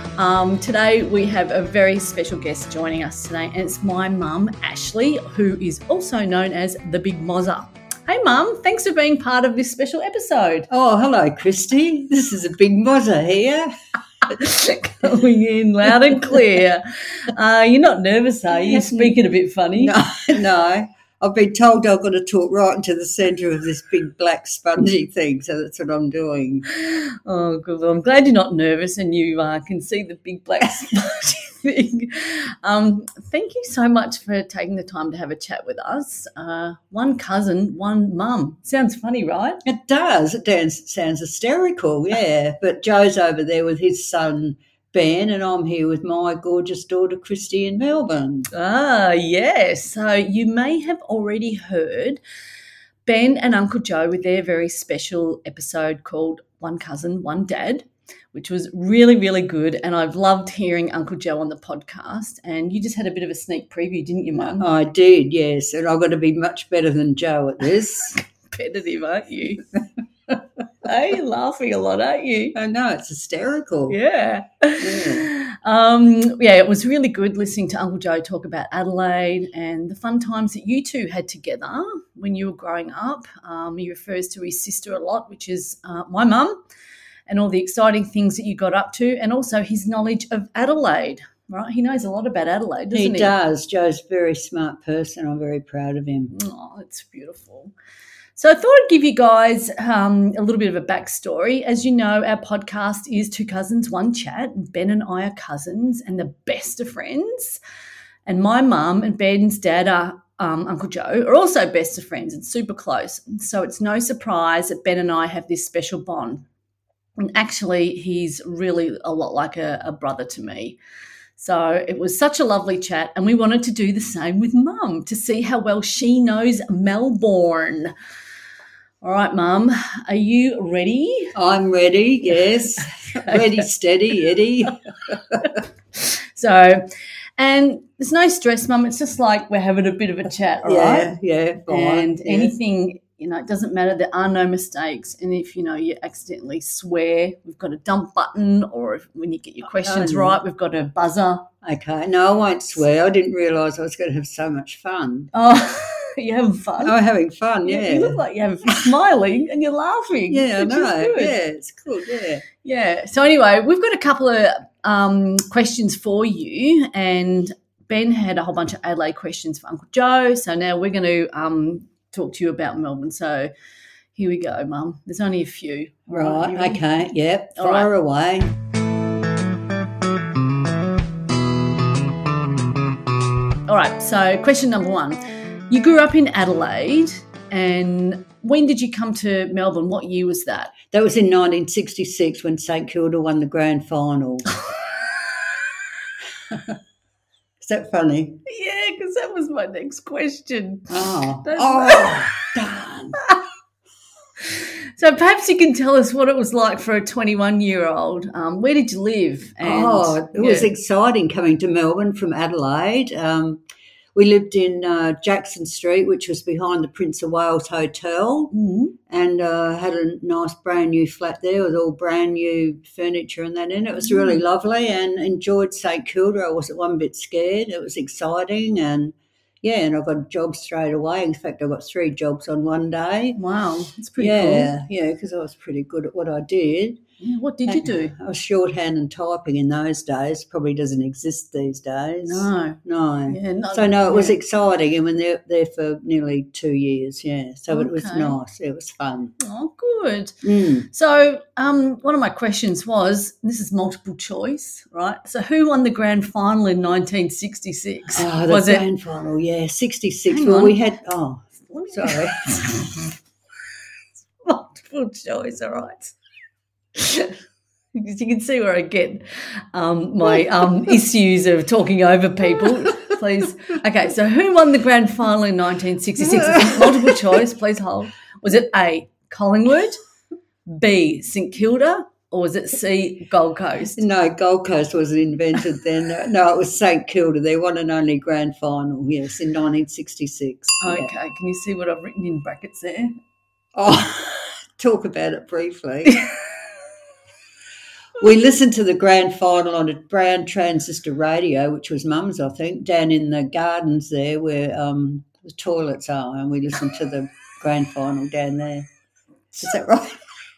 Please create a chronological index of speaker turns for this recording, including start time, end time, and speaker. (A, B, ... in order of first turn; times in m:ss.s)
0:00.2-0:10.7 A
0:10.7-0:13.7 B
0:14.3-0:19.9 A
0:18.5-0:19.2 B
0:19.8-0:26.7 B
0:26.7-0:39.6 A
0:39.7-0:48.5 B
0:48.5-0:52.2 A
0:53.1-1:04.7 A
1:04.4-1:08.2 B
1:08.1-1:09.6 A
1:10.8-1:12.6 A
1:12.6-1:14.0 B
1:13.9-1:26.6 A
1:14.8-1:15.3 B
1:27.3-1:33.3 A
1:32.9-1:36.4 B
1:36.3-1:37.7 A
1:38.4-1:47.6 A
1:48.3-1:56.4 A
1:57.2-2:00.8 A
2:01.4-2:07.9 A
2:09.0-2:11.4 A
2:11.4-2:15.4 B
2:12.8-2:13.7 A
2:15.4-2:16.9 A
2:17.4-2:21.1 A
2:20.6-2:22.6 B
2:21.7-2:31.4 A
2:29.8-2:30.4 B
2:31.6-2:35.3 B
2:35.3-2:37.0 A
2:36.8-2:38.2 B
2:37.6-2:41.4 A
2:40.3-2:42.4 B
2:42.6-2:53.5 A
2:54.1-2:56.8 A
2:56.1-2:58.6 B
2:57.6-2:57.9 A
3:03.7-3:10.8 A
3:10.9-3:14.5 B
3:17.6-3:18.4 B
3:18.5-3:22.4 A
3:20.9-3:23.2 B
3:24.5-3:30.7 A
3:29.6-3:33.6 B
3:34.2-3:38.5 B
3:38.5-3:39.0 A
3:39.1-3:53.4 B
3:53.4-3:54.7 A
3:54.2-3:57.0 B
3:57.2-3:58.2 A
3:57.7-4:09.3 B
4:02.2-4:04.4 A
4:07.7-4:08.4 A
4:09.4-4:18.8 A
4:10.4-4:10.9 B
4:18.2-4:22.9 B
4:20.3-4:20.8 A
4:21.7-4:23.1 A
4:24.4-4:26.1 A
4:27.0-4:27.3 A
4:27.9-4:40.0 A
4:36.2-4:37.4 B
4:40.7-4:44.0 A
4:44.0-4:51.1 B
4:50.8-4:53.1 A
4:53.8-4:56.2 B
4:58.2-5:08.9 B
5:09.5-5:10.2 B